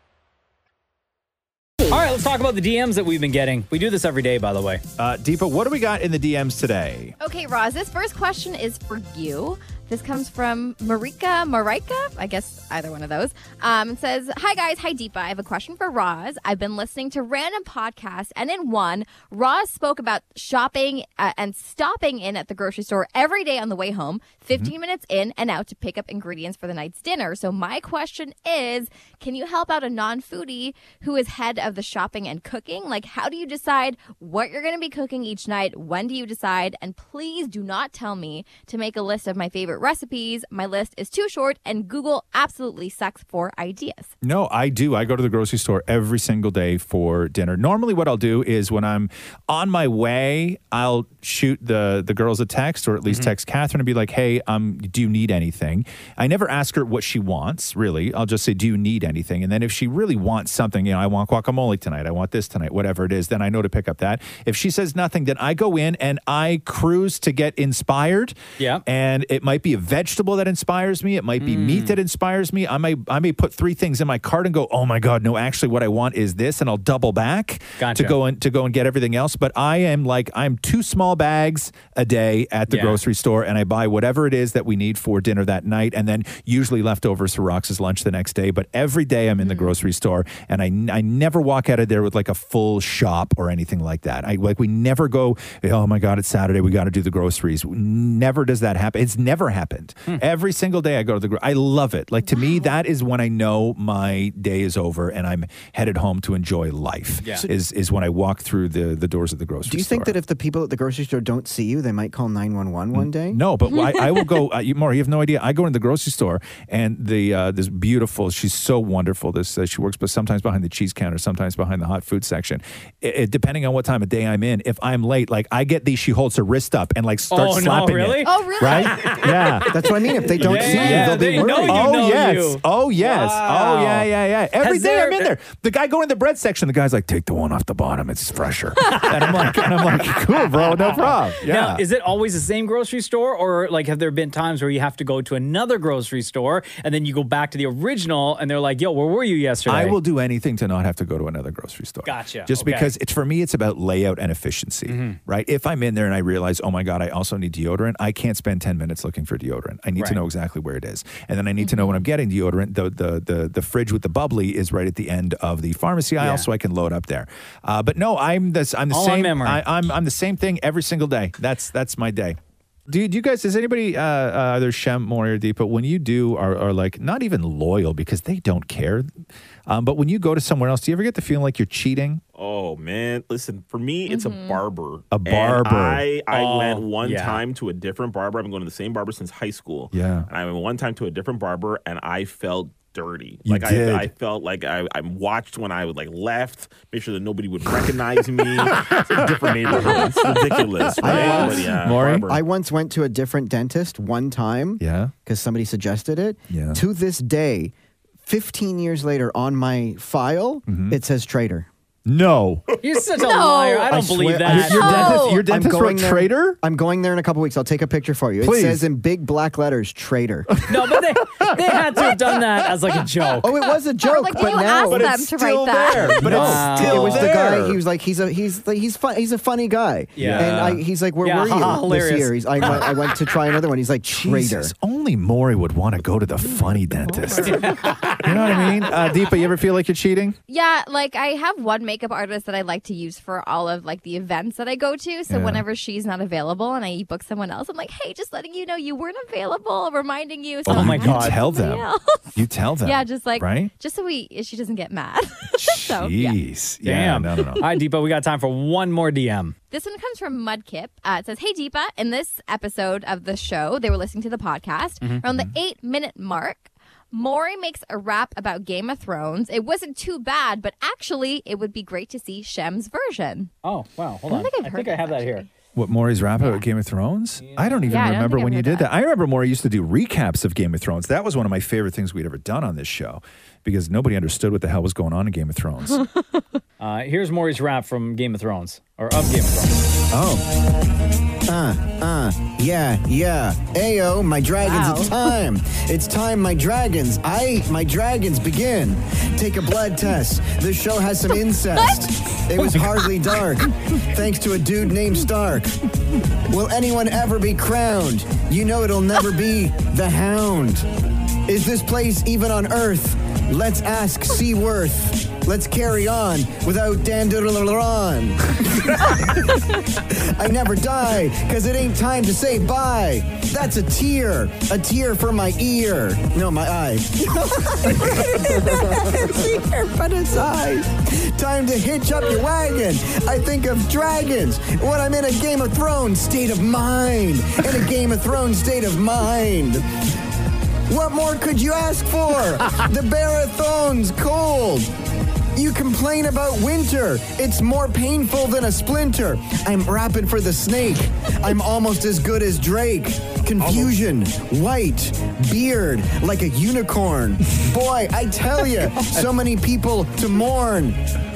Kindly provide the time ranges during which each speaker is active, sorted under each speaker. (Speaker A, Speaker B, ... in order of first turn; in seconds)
Speaker A: 1.9-4.8, 53.1-53.3, 68.6-68.8, 71.4-72.0, 77.8-78.2, 82.7-83.0, 107.2-107.5, 127.3-135.3, 140.8-150.0, 152.0-152.9, 154.9-155.2, 160.0-160.2, 166.2-166.5, 168.9-169.6, 186.3-187.4, 201.2-201.5, 212.8-215.1, 220.7-223.5, 226.2-227.3, 230.2-232.8, 237.4-238.2, 250.7-251.4, 256.8-259.5, 273.6-275.5, 277.4-278.2, 286.8-289.8, 358.9-359.3
Speaker B: 5.0-7.2, 44.2-110.2, 112.9-141.8, 149.7-172.4, 172.9-179.1, 179.7-182.2, 185.1-186.1, 189.9-190.3, 193.5-194.1, 198.7-202.3, 204.8-205.1, 206.5-206.8, 210.7-211.0, 212.1-212.8, 214.4-216.6, 218.4-218.8, 221.3-222.2, 224.6-227.8, 230.2-230.8, 232.6-232.9, 234.1-240.4, 245.3-245.7, 250.7-253.7, 255.6-257.6, 275.8-286.1
Speaker C: 7.2-44.1, 89.4-89.8, 102.3-102.7, 113.7-114.4, 128.2-129.3, 161.6-162.0, 184.1-184.6, 213.2-213.9, 214.5-215.4, 224.0-226.5, 236.5-239.5, 240.5-256.4, 257.4-257.6, 259.7-273.5, 274.3-275.5, 276.4-276.6, 277.9-278.9, 286.0-286.2, 294.6-295.3, 302.8-303.2, 327.9-329.6
Speaker D: 109.7-113.4, 129.7-131.9, 201.0-201.7, 202.2-207.7, 208.2-211.7, 213.9-220.6, 223.4-225.3, 225.9-234.7, 290.1-290.4, 291.5-305.8, 306.5-310.9, 311.5-339.9, 340.9-344.9, 345.6-361.0
Speaker E: 182.4-202.4